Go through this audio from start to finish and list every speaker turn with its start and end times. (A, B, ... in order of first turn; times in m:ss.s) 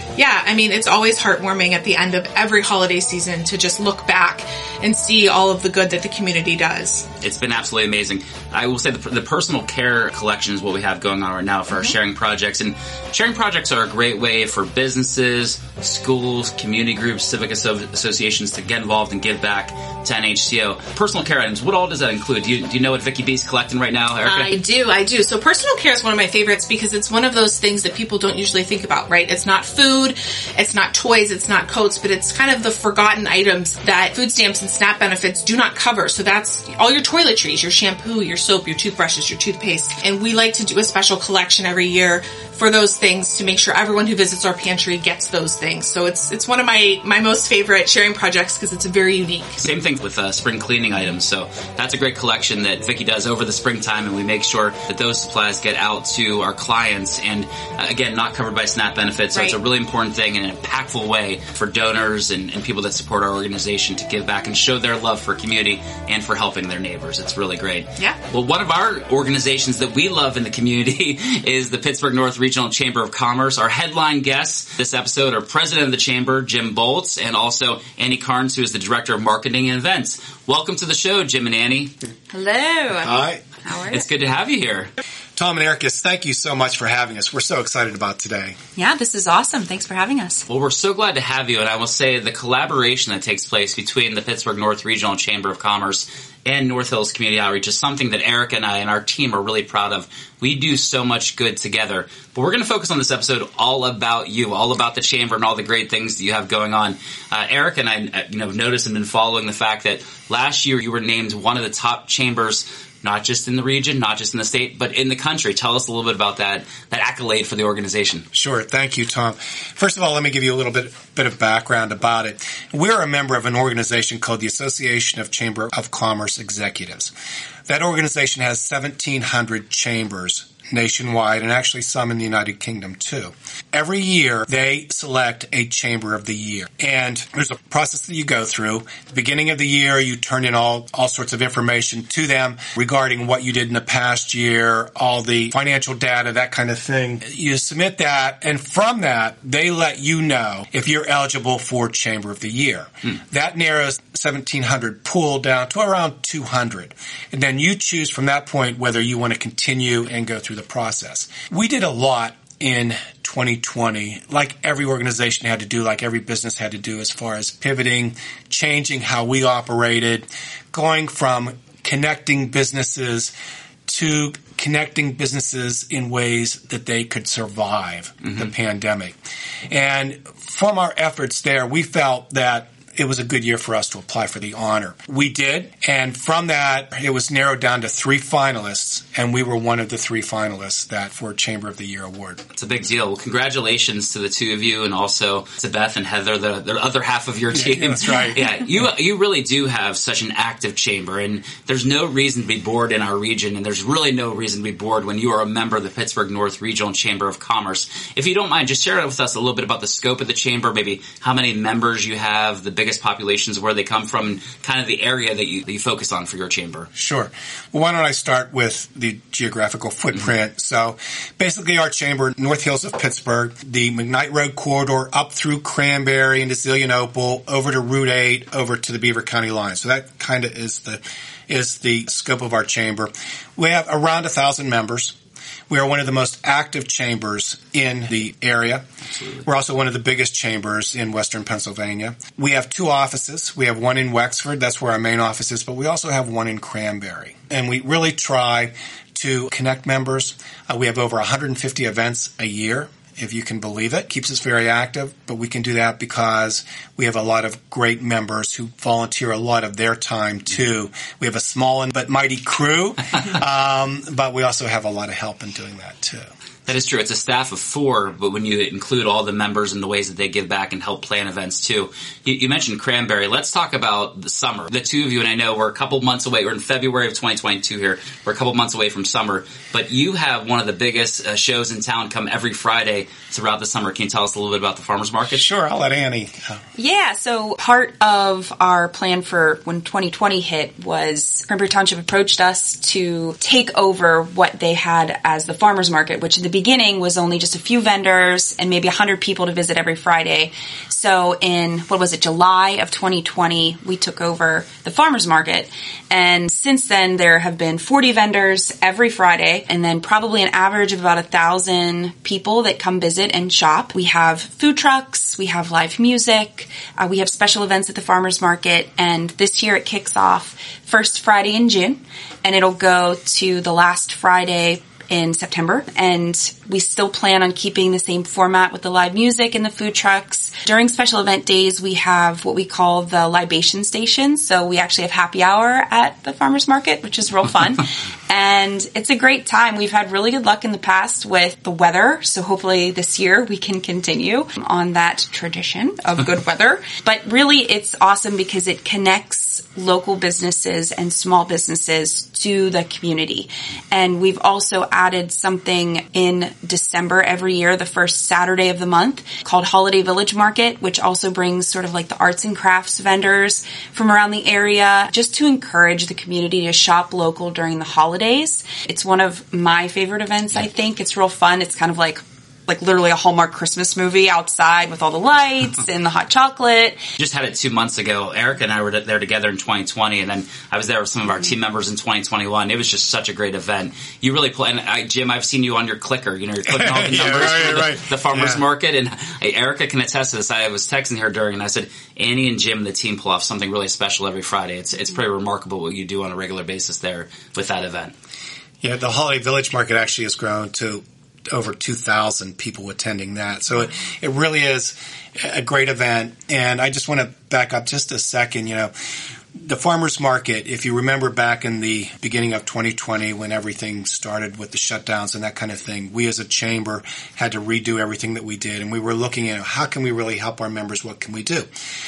0:00.2-0:07.0 A
0:07.2-0:24.5 B
0:24.2-0:49.6 A
0:49.6-1:21.9 B
1:22.3-1:23.1 C
1:23.0-1:23.4 D
1:23.6-1:24.0 C
1:23.9-1:24.9 B
1:25.4-1:28.6 D
1:28.8-1:30.4 C
1:30.5-1:58.2 B
1:58.3-2:07.1 D
2:07.7-2:53.3 D
2:53.9-2:59.2 D
2:59.7-3:12.4 D
3:12.6-3:36.9 B
3:17.5-3:18.4 D
3:37.0-3:55.1 D
3:55.7-3:58.8 D
3:59.2-3:59.4 B
3:59.4-4:26.3 D
4:26.6-4:45.5 B
4:45.3-4:46.6 D
4:46.8-6:17.0 C
6:17.2-6:38.1 B
6:26.7-6:28.6 D
6:38.8-6:48.9 D
6:49.6-7:01.7 D